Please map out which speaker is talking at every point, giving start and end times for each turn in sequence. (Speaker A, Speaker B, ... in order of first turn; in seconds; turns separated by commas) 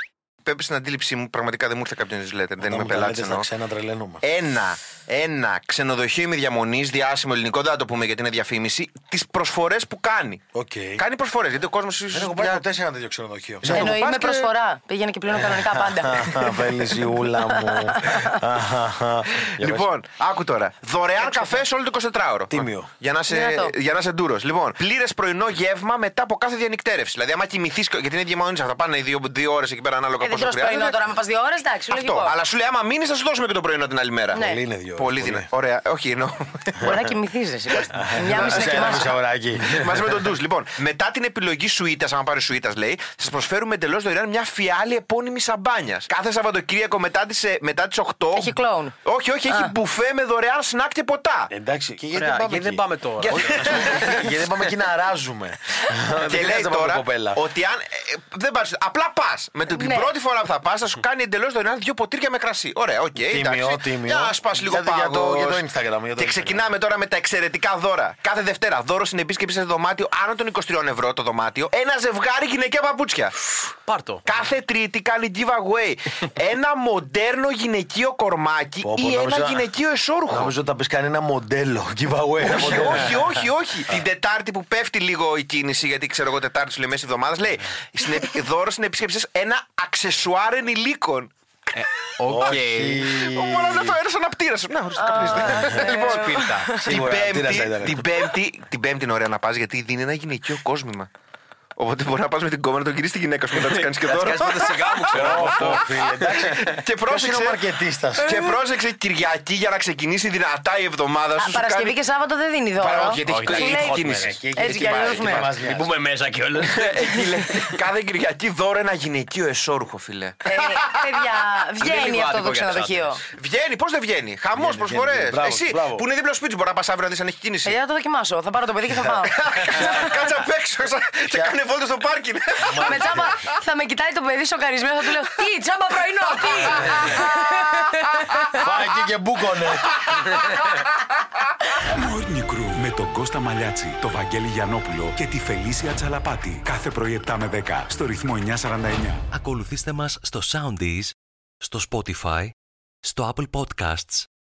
Speaker A: 0.4-3.5, Speaker B: 2.6-4.2, Speaker A: 4.2-10.4, Speaker B: 10.5-11.0, Speaker A: 10.9-12.6, Speaker B: 12.1-13.9, Speaker A: 13.6-14.5, Speaker C: 13.7-18.4, Speaker B: 15.3-19.9, Speaker A: 19.3-31.0, Speaker C: 21.2-21.6, Speaker B: 22.5-22.9, Speaker C: 23.3-23.7, Speaker C: 30.2-32.3, Speaker A: 31.9-37.1, Speaker C: 34.3-34.6, Speaker B: 34.3-35.5, Speaker B: 36.8-37.1, Speaker C: 36.8-39.1, Speaker A: 37.7-51.5, Speaker B: 37.9-40.2, Speaker C: 48.3-48.9, Speaker B: 51.5-57.4, Speaker A: 52.1-54.4, Speaker D: 52.1-54.4, Speaker A: 56.2-80.5, Speaker C: 59.7-60.1, Speaker B: 63.1-66.7, Speaker D: 73.8-74.2, Speaker B: 78.8-79.7, Speaker B: 80.3-83.3, Speaker A: 82.4-91.8, Speaker D: 91.8-93.1, Speaker B: 92.2-94.0, Speaker A: 92.4-101.1, Speaker C: 95.0-96.8, Speaker B: 95.3-96.0, Speaker D: 95.6-96.8, Speaker B: 96.8-98.0, Speaker A: 101.8-107.7, Speaker D: 103.5-106.5, Speaker B: 105.0-108.5, Speaker A: 108.2-111.9, Speaker C: 111.3-114.0, Speaker A: 112.8-115.9, Speaker D: 113.2-114.4, Speaker B: 113.9-116.0, Speaker C: 114.5-115.5, Speaker D: 115.2-117.3, Speaker A: 116.6-127.8, Speaker C: 120.4-123.2, Speaker B: 124.5-126.1, Speaker C: 127.6-130.1, Speaker B: 128.9-130.1, Speaker A: 129.3-133.4, Speaker B: 131.2-131.6, Speaker B: 132.7-133.3, Speaker C: 132.8-138.6, Speaker A: 136.5-136.9, Speaker B: 136.7-137.2, Speaker B: 138.6-140.1, Speaker A: 140.1-140.8, Speaker E: 141.9-149.2, Speaker F: 149.3-154.3